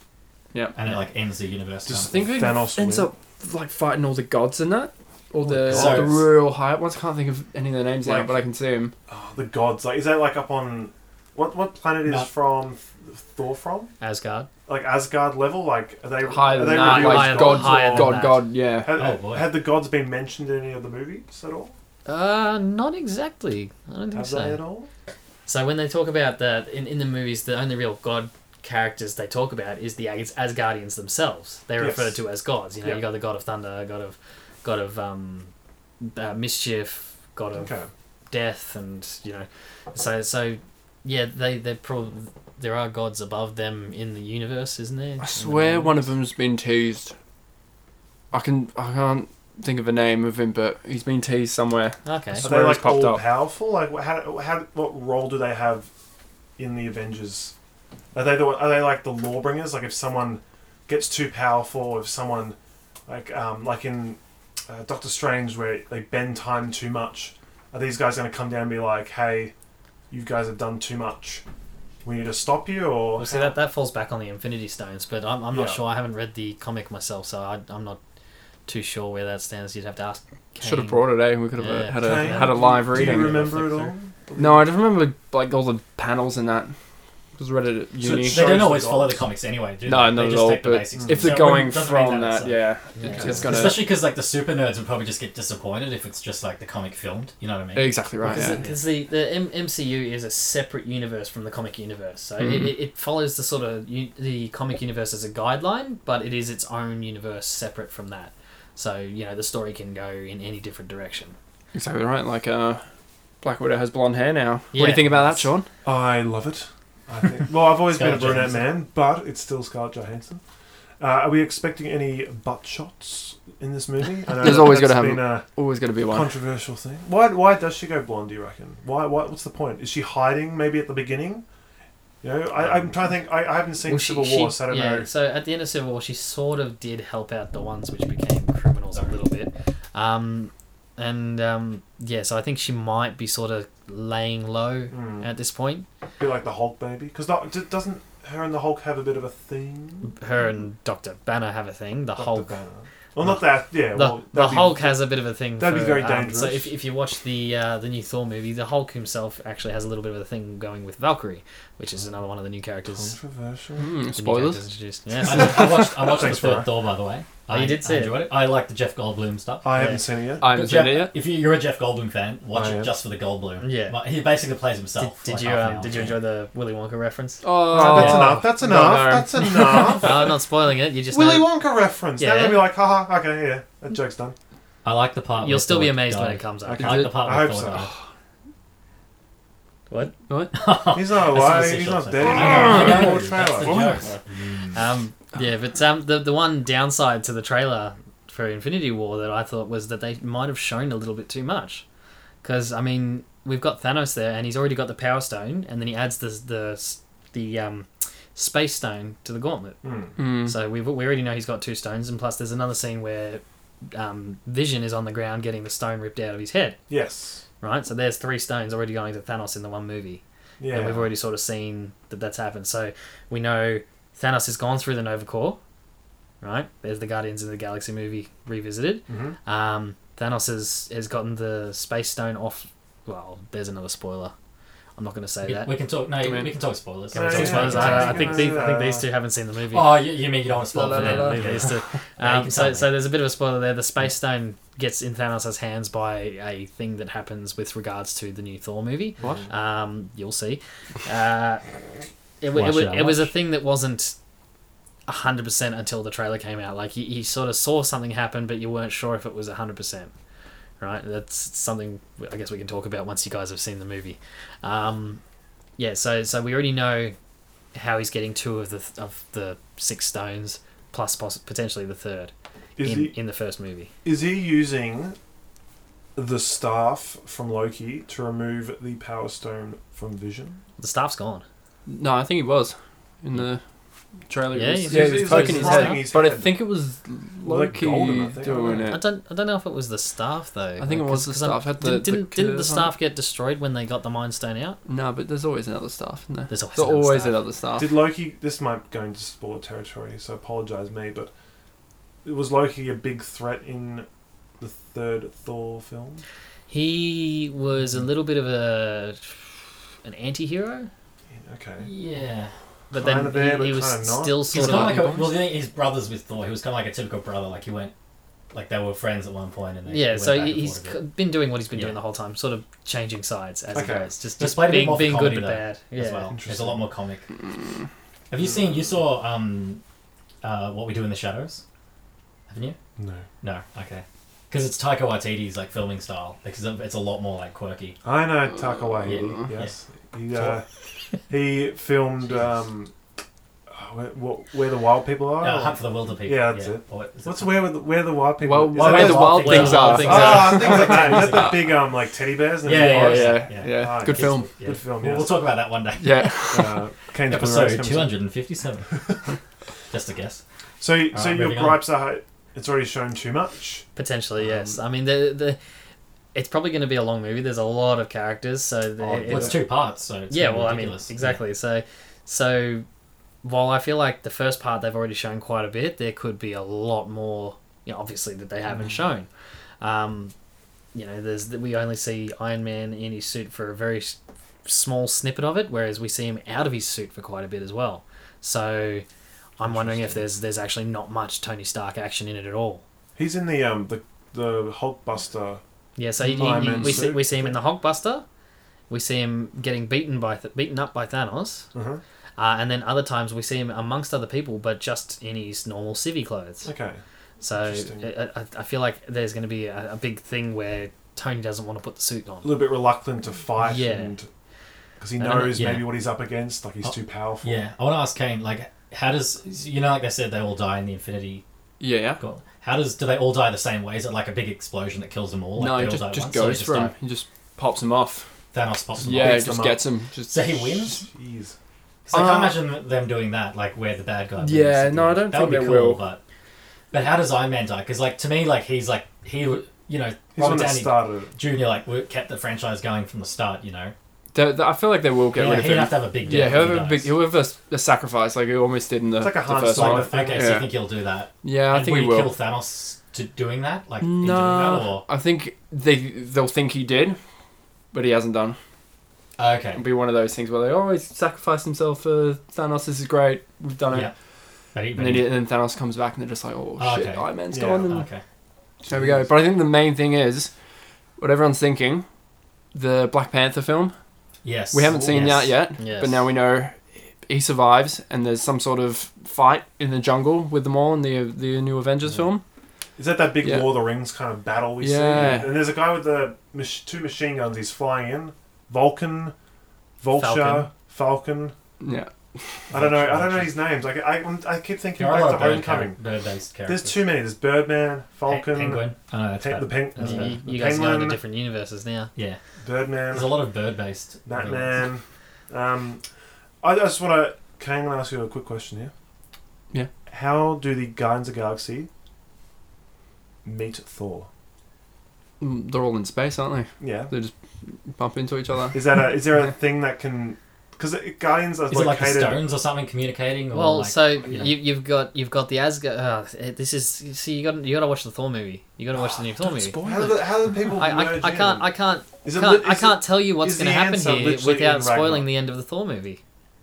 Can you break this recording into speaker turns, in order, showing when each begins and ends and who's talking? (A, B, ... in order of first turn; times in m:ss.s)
0:00.8-0:02.3 A
0:01.9-0:03.1 B
0:02.1-0:08.9 C
0:05.4-0:06.3 B
0:05.6-0:06.2 A
0:08.0-0:08.4 B
0:09.1-0:13.9 B
0:14.0-0:14.5 D
0:14.7-0:21.8 B
0:16.2-0:19.0 C
0:16.6-0:18.4 D
0:18.9-0:19.6 A
0:22.1-0:24.6 D
0:24.1-0:24.9 B
0:25.5-0:37.7 D
0:31.8-0:32.2 B
0:37.5-0:37.9 B
0:38.3-0:46.1 D
0:45.2-0:47.1 C
0:48.3-0:53.3 C
0:52.0-0:52.5 D
0:52.4-0:55.9 B
0:56.6-0:57.5 B
0:58.1-1:09.5 B
1:10.1-1:11.4 B
1:12.0-1:13.5 B
1:13.2-1:18.0 D
1:15.5-1:15.8 B
1:18.7-1:23.9 D
1:20.6-1:23.8 C
1:22.0-1:24.7 B
1:24.4-1:26.7 C
1:27.4-1:28.4 C
1:28.0-1:29.2 B
1:28.3-1:32.7 A
1:29.9-1:33.8 C
1:31.0-1:31.4 B
1:33.0-1:33.5 D
1:33.0-1:33.7 B
1:33.2-1:38.6 A
1:37.8-1:38.6 C
1:38.2-1:38.8 B
1:38.2-1:51.4 D
1:42.4-1:42.7 C
1:51.7-1:52.8 C
1:53.4-1:55.7 C
1:54.7-1:55.5 D
1:55.8-2:00.4 B
1:57.9-1:58.7 A
2:01.0-2:05.5 B
2:04.3-2:06.3 C
2:06.1-2:11.4 B
2:12.2-2:15.1 B
2:12.6-2:13.1 D
2:13.8-2:25.9 D
2:24.9-2:25.3 B
2:26.2-2:30.1 B
2:30.1-2:32.6 D
2:32.2-2:35.0 B
2:33.9-2:43.2 D
2:35.6-2:36.7 B
2:42.9-2:43.9 B
2:43.8-2:44.6 C
2:44.2-2:45.8 D
2:45.2-2:46.7 B
2:45.2-2:49.7 A
2:47.5-2:48.2 D
2:49.6-2:50.5 B
2:49.7-2:50.0 D
2:50.4-2:51.1 C
2:50.4-2:56.2 A
2:52.5-2:52.9 B
2:53.6-2:54.0 D
2:55.0-2:58.3 D
2:57.4-3:00.2 C
2:57.7-3:00.3 B
2:57.9-2:58.3 A
2:59.9-3:01.6 D
3:01.1-3:04.4 B
3:02.2-3:02.7 D
3:04.8-3:07.9 A
3:05.4-3:07.1 D
3:06.7-3:07.9 B
3:06.8-3:07.2 C
3:10.3-3:10.6 C
3:10.5-3:14.1 A
3:10.9-3:14.1 B
3:12.3-3:14.0 C
3:14.7-3:21.8 D
3:22.4-3:36.8 D
3:29.8-3:30.1 B
3:30.2-3:30.6 C
3:36.9-3:37.4 B
3:37.6-3:45.6 D
3:40.6-3:41.1 B
3:46.4-3:54.3 D
3:49.1-3:49.4 B
3:55.0-3:55.7 D
3:55.4-3:58.6 A
3:56.2-3:56.5 C
3:57.1-4:00.0 D
3:57.1-3:59.1 B
3:59.7-4:02.9 A
4:00.7-4:01.7 C
4:00.8-4:11.7 D
4:09.2-4:09.5 B
4:12.4-4:14.2 D
4:12.5-4:13.3 A
4:15.1-4:20.1 D
4:20.8-4:25.2 D
4:25.8-4:27.2 D
4:27.7-4:33.9 D
4:32.8-4:33.2 B
4:34.0-4:35.2 B
4:36.2-4:40.6 B
4:40.8-4:41.4 D
4:41.9-4:43.6 C
4:44.3-4:49.0 C
4:44.5-4:46.0 D
4:44.9-4:46.6 B
4:47.4-4:48.9 B
4:48.9-4:54.8 D
4:50.8-4:52.9 C
4:54.9-4:57.9 C
4:56.5-4:57.4 D
4:57.8-5:01.3 B
5:02.2-5:04.1 B
5:04.6-5:06.2 B
5:06.7-5:09.5 D
5:10.0-5:10.9 D
5:11.3-5:11.9 B
5:11.8-5:12.5 A
5:12.9-5:14.5 B
5:12.9-5:15.0 D
5:14.5-5:17.9 A
5:14.5-5:15.4 C
5:18.5-5:21.0 A
5:19.9-5:26.3 D
5:23.7-5:24.1 B
5:24.4-5:27.2 A
5:26.3-5:26.9 B
5:27.6-5:27.8 C
5:28.3-5:29.8 A
5:30.4-5:31.6 A
5:32.5-5:32.8 A
5:33.0-5:33.2 B
5:33.4-5:38.0 A
5:38.0-5:40.7 B
5:39.0-5:39.4 C
5:39.0-5:39.7 A
5:41.3-5:42.9 B
5:43.7-5:55.3 B
5:45.4-5:47.6 A
5:48.4-5:51.6 C
5:48.7-5:51.7 A
5:49.3-5:50.8 D
5:52.6-5:56.7 A
5:52.7-5:54.5 C
5:56.0-5:56.8 C
5:56.5-5:58.2 B
5:57.3-5:59.3 A
5:59.9-6:00.4 A
6:00.8-6:03.8 B
6:01.1-6:01.8 A
6:04.0-6:05.6 D
6:06.3-6:09.6 D
6:09.0-6:09.6 B
6:09.2-6:11.4 A
6:10.3-6:12.9 D
6:13.4-6:19.3 D
6:19.8-6:20.3 D
6:20.9-6:29.0 D
6:29.6-6:32.8 D
6:29.6-6:30.2 B
6:33.2-6:35.6 B
6:36.0-6:38.2 D
6:36.2-6:37.6 B
6:36.3-6:37.1 C
6:38.9-6:41.7 D
6:41.7-6:42.0 B
6:42.4-6:46.7 D
6:46.6-6:48.1 B
6:47.4-6:52.6 D
6:52.4-6:54.3 B
6:53.6-6:54.2 D
6:55.0-6:57.6 B
6:55.2-6:55.6 D
6:55.4-6:55.9 A
6:56.8-7:01.4 A
7:01.8-7:02.2 C
7:02.2-7:06.9 A
7:05.6-7:08.3 C
7:08.5-7:09.6 A
7:09.0-7:09.8 B
7:09.0-7:10.5 C
7:10.3-7:11.0 A
7:10.8-7:11.6 B
7:12.1-7:16.2 A
7:12.1-7:12.6 C
7:14.4-7:16.0 C
7:16.9-7:23.9 A
7:20.4-7:21.3 B
7:24.3-7:30.7 C
7:25.3-7:27.1 A
7:29.2-7:30.6 B
7:29.6-7:35.1 A
7:31.4-7:32.3 C
7:34.0-7:37.2 C
7:37.9-7:38.6 C
7:39.4-7:39.8 A
7:39.8-7:44.1 C
7:44.7-7:45.3 A
7:45.0-7:48.1 C
7:46.8-7:47.3 A
7:47.5-7:47.9 B
7:47.9-7:48.2 A
7:48.9-7:49.3 B
7:48.9-7:50.5 C
7:51.2-7:52.1 C
7:52.7-7:53.9 C
7:54.4-7:55.5 A
7:54.7-8:02.4 C
7:54.9-7:55.4 B
7:55.8-7:56.2 D
8:03.0-8:09.3 B
8:03.4-8:03.8 C
8:04.8-8:05.6 C
8:10.0-8:11.5 B
8:10.1-8:10.7 D
8:11.8-8:12.7 C
8:12.7-8:16.0 B
8:12.7-8:13.6 A
8:15.0-8:17.0 A
8:16.7-8:21.2 B
8:18.3-8:20.4 A
8:20.0-8:22.1 D
8:22.6-8:23.3 B
8:23.1-8:24.8 A
8:24.3-8:26.0 B
8:26.6-8:28.9 B
8:30.1-8:31.9 B
8:33.4-8:34.3 B
8:35.4-8:39.2 C
8:36.8-8:37.1 B
8:38.7-8:42.4 B
8:41.7-8:44.6 A
8:43.5-8:49.8 D
8:49.4-8:51.7 B
8:49.6-8:50.2 C
8:50.6-8:56.2 D
8:52.2-8:55.3 B